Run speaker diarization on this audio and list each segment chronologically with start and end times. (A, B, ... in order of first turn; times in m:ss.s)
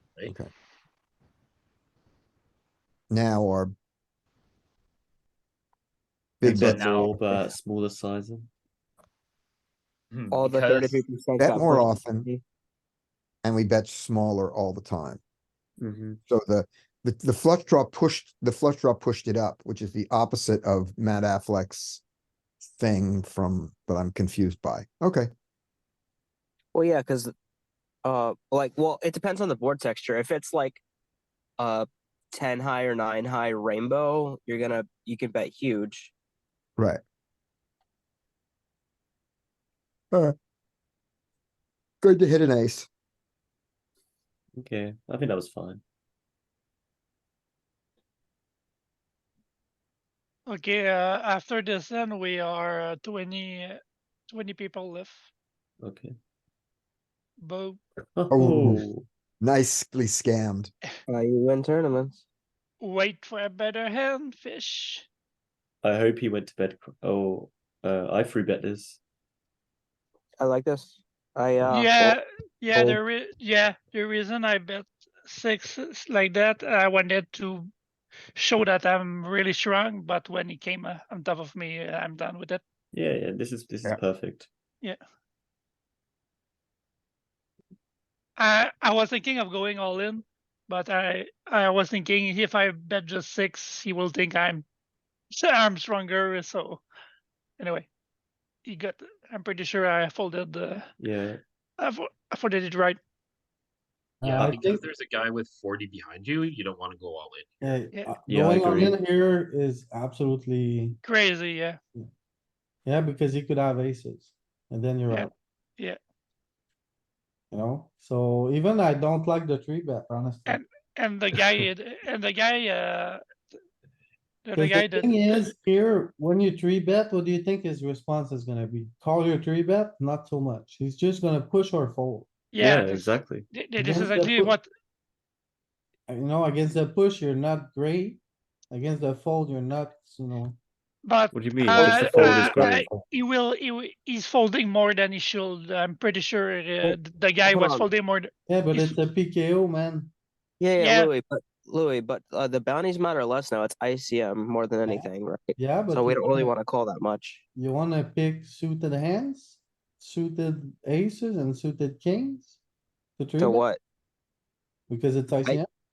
0:03.1-0:03.7 A
0:06.4-0:07.1 A
0:06.4-0:08.5 B
0:06.7-0:07.3 C
0:10.1-0:10.9 C
0:10.3-0:12.4 D
0:11.4-0:12.3 A
0:13.4-0:15.2 A
0:15.8-0:16.2 B
0:16.3-0:22.0 A
0:22.8-0:25.3 A
0:26.7-0:27.3 D
0:28.0-0:30.8 D
0:31.6-0:36.1 D
0:42.0-0:42.9 A
0:44.6-0:45.8 B
0:50.5-0:55.3 E
0:55.8-0:56.1 B
0:57.4-0:57.8 E
0:58.1-0:59.0 B
0:58.3-0:58.8 A
0:59.4-1:00.7 A
1:01.1-1:02.2 D
1:02.8-1:05.0 E
1:05.8-1:09.0 B
1:10.4-1:12.1 D
1:11.7-1:17.7 E
1:12.7-1:13.0 D
1:18.4-1:22.6 E
1:22.9-1:24.5 B
1:28.4-1:34.6 E
1:35.3-1:36.8 E
1:37.6-1:37.9 E
1:38.7-1:40.9 E
1:41.0-1:41.4 B
1:41.8-1:43.0 E
1:44.2-1:44.9 F
1:44.2-1:47.7 C
1:44.3-1:44.7 B
1:47.6-1:51.0 F
1:47.9-1:48.2 E
1:48.2-1:49.0 B
1:51.0-1:51.8 E
1:52.8-1:55.3 F
1:55.1-1:56.0 E
1:57.5-2:00.6 F
2:00.4-2:03.2 E
2:04.4-2:05.5 E
2:04.5-2:12.4 F
2:12.5-2:14.6 E
2:12.6-2:13.5 B
2:13.8-2:14.6 F
2:16.1-2:20.6 F
2:21.0-2:29.0 E
2:21.3-2:23.0 B
2:26.8-2:27.8 D
2:28.4-2:30.1 F
2:30.6-2:37.4 D
2:30.8-2:31.1 E
2:34.8-2:36.6 F
2:37.5-2:42.6 F
2:43.2-2:43.6 F
2:43.4-2:43.8 D
2:44.9-2:45.7 F